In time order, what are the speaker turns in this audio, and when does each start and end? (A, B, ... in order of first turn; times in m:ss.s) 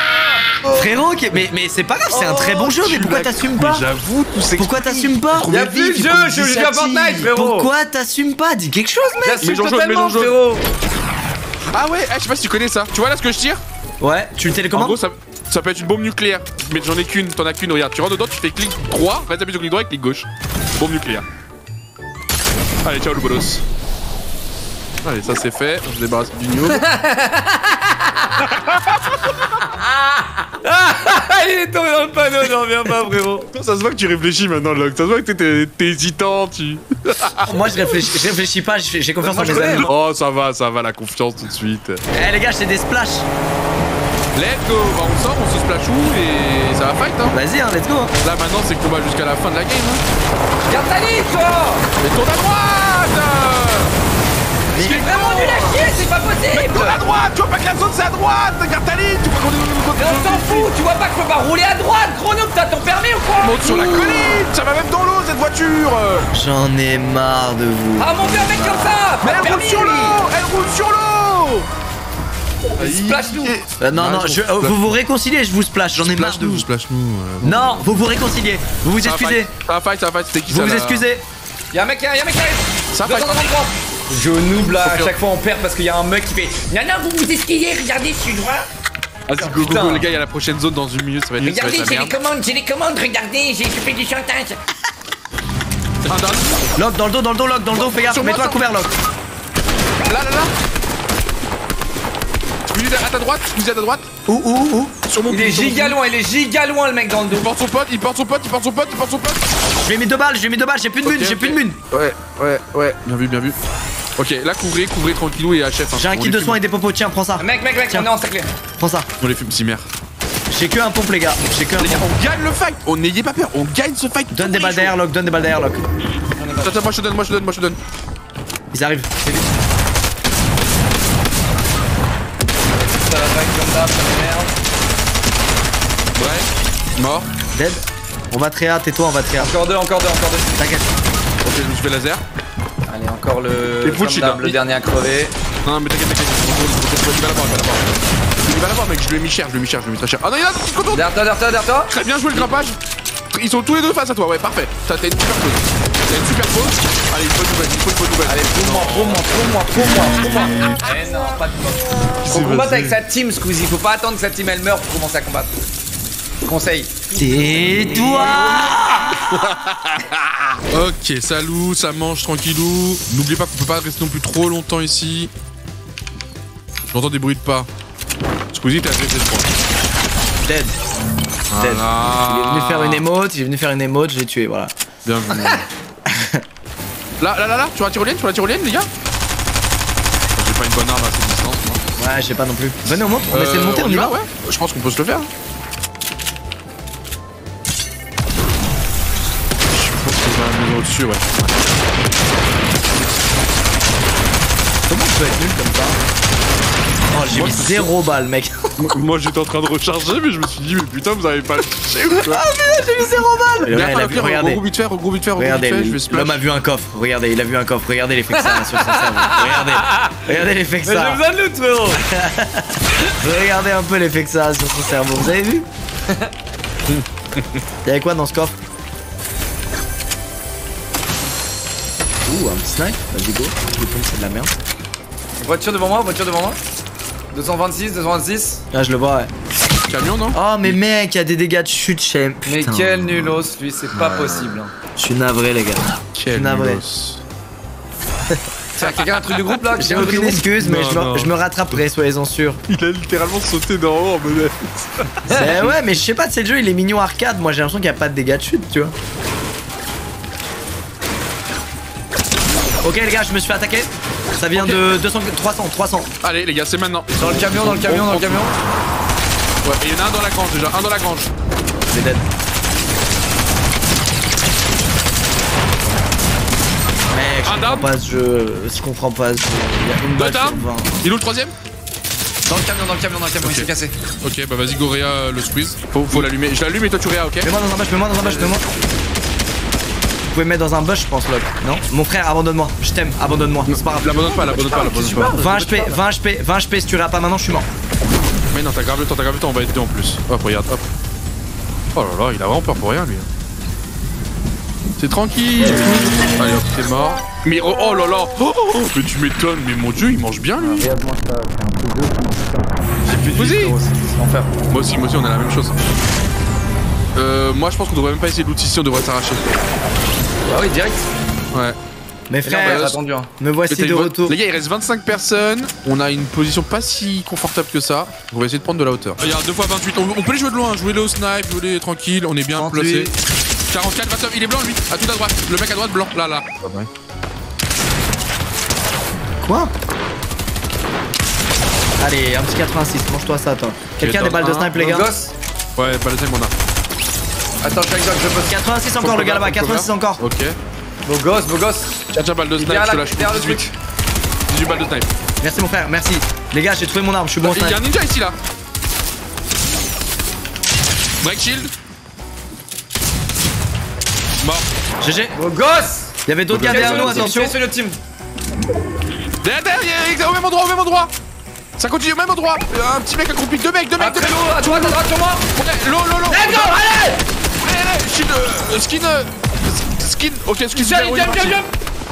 0:00.6-0:03.8 A
0:02.2-0:06.2 B
0:04.5-0:09.4 A
0:05.5-0:07.7 C
0:09.2-0:10.6 C
0:09.4-0:10.3 B
0:11.7-0:13.6 B
0:14.0-0:15.0 A
0:14.7-0:21.2 B
0:22.8-0:23.6 B
0:25.0-0:26.8 B
0:26.6-0:28.4 C
0:29.6-0:33.5 C
0:33.5-0:38.0 B
0:37.4-0:39.9 A
0:39.2-0:39.9 C
0:39.4-0:42.0 B
0:42.1-0:43.2 A
0:44.3-0:47.4 B
0:47.3-0:48.1 A
0:48.2-0:50.0 B
0:50.7-0:51.9 C
0:52.0-0:53.9 B
0:54.7-0:55.0 A
0:54.7-0:55.8 B
0:54.8-0:57.0 C
0:56.5-1:00.7 B
1:00.0-1:03.7 C
1:03.4-1:06.3 B
1:03.7-1:04.3 A
1:06.3-1:09.0 A
1:08.0-1:10.2 C
1:09.2-1:11.7 B
1:12.8-1:15.0 B
1:12.8-1:13.6 C
1:13.8-1:16.6 A
1:16.0-1:17.9 B
1:17.4-1:19.5 A
1:19.0-1:21.1 B
1:20.5-1:21.2 A
1:21.7-1:28.7 C
1:22.9-1:23.4 B
1:24.7-1:25.1 B
1:29.3-1:32.2 B
1:29.4-1:30.1 C
1:31.4-1:34.6 C
1:36.0-1:36.6 B
1:36.8-1:38.9 A
1:37.7-1:38.8 B
1:40.0-1:40.5 B
1:42.7-1:44.1 B
1:44.3-1:44.9 A
1:45.1-1:46.0 B
1:45.3-1:47.5 C
1:47.3-1:49.5 B
1:49.8-1:51.8 A
1:51.0-1:53.6 B
1:54.2-1:56.6 B
1:55.9-1:58.1 A
1:57.4-1:58.5 C
1:58.8-1:59.1 A
1:59.2-1:59.9 B
2:00.5-2:02.1 A
2:01.8-2:05.0 B
2:04.3-2:05.8 A
2:06.4-2:07.0 C
2:06.6-2:07.8 B
2:08.7-2:09.1 A
2:09.2-2:09.5 C
2:12.7-2:14.5 C
2:16.2-2:17.3 B
2:17.5-2:19.5 A
2:19.4-2:20.7 C
2:20.6-2:20.9 A
2:21.4-2:22.2 B
2:22.9-2:25.3 C
2:23.8-2:24.6 B
2:25.6-2:31.1 B
2:30.9-2:32.4 C
2:31.9-2:32.8 B
2:33.3-2:39.2 B
2:38.2-2:45.5 C
2:40.1-2:40.7 B
2:42.2-2:43.0 B
2:46.4-2:48.9 C
2:47.1-2:49.0 A
2:49.4-2:50.0 B
2:50.7-2:55.3 B
2:56.9-2:57.7 B
2:58.5-2:59.5 B
3:00.4-3:00.7 A
3:01.5-3:03.0 B
3:01.6-3:04.7 A
3:05.0-3:05.6 B
3:06.1-3:06.4 A
3:07.2-3:08.9 B
3:10.4-3:11.8 B
3:12.0-3:14.2 A
3:13.3-3:15.3 B
3:19.7-3:21.6 B
3:24.9-3:26.0 A
3:27.1-3:28.8 A
3:27.3-3:27.9 B
3:28.8-3:32.4 B
3:32.2-3:34.6 A
3:33.6-3:36.4 B
3:35.4-3:41.2 A
3:38.3-3:40.3 C
3:40.8-3:42.0 C
3:42.0-3:45.6 A
3:46.9-3:47.6 B
3:47.8-3:48.5 A
3:52.2-3:54.5 A
3:55.4-3:56.6 C
3:57.3-3:58.6 C
3:58.7-3:59.3 A
3:59.8-4:00.7 B
4:00.3-4:03.1 A
4:02.4-4:04.7 C
4:03.9-4:04.5 B
4:05.0-4:06.8 A
4:06.1-4:07.2 B
4:08.8-4:10.4 C
4:08.8-4:11.8 B
4:09.8-4:12.6 A
4:12.7-4:15.4 B
4:15.2-4:15.7 C
4:15.3-4:18.9 A
4:22.8-4:26.1 A
4:24.5-4:24.9 B
4:26.2-4:28.5 B
4:27.2-4:28.6 C
4:29.6-4:31.3 B
4:31.9-4:32.2 A
4:37.1-4:41.0 A
4:37.4-4:37.9 B
4:40.2-4:41.5 B
4:42.5-4:43.9 C
4:43.4-4:47.5 B
4:47.4-4:48.6 A
4:48.2-4:48.6 C
4:50.3-4:54.4 A
4:53.7-4:55.4 B
4:54.3-4:56.0 C
4:55.2-4:57.6 A
4:58.5-5:00.8 B
5:01.9-5:03.3 B
5:05.0-5:10.9 B
5:10.8-5:14.5 C
5:13.3-5:13.8 B
5:14.7-5:15.8 B
5:17.1-5:19.5 B
5:20.5-5:21.1 C
5:21.5-5:21.8 B
5:22.3-5:24.4 A
5:22.4-5:23.3 C
5:22.6-5:23.0 B
5:23.7-5:33.1 B
5:32.6-5:33.1 C
5:33.7-5:36.9 B
5:39.4-5:39.7 A
5:42.0-5:45.1 A
5:44.0-5:44.7 B
5:44.7-5:45.3 C
5:45.8-5:46.5 B
5:47.6-5:48.6 C
5:48.4-5:50.2 A
5:49.0-5:50.6 B
5:51.0-5:52.0 C
5:52.1-5:53.7 B
5:52.6-5:53.7 C
5:54.5-5:55.1 B
5:55.4-5:57.8 A
5:57.4-5:58.4 B
6:01.2-6:01.7 B
6:04.4-6:04.7 B
6:05.0-6:05.4 A
6:05.3-6:08.0 C
6:06.2-6:07.5 A
6:06.5-6:07.3 B
6:09.4-6:11.1 B
6:11.8-6:15.0 B
6:14.0-6:15.4 C
6:15.5-6:16.9 B
6:16.3-6:17.2 C
6:17.6-6:21.6 B
6:20.7-6:21.7 C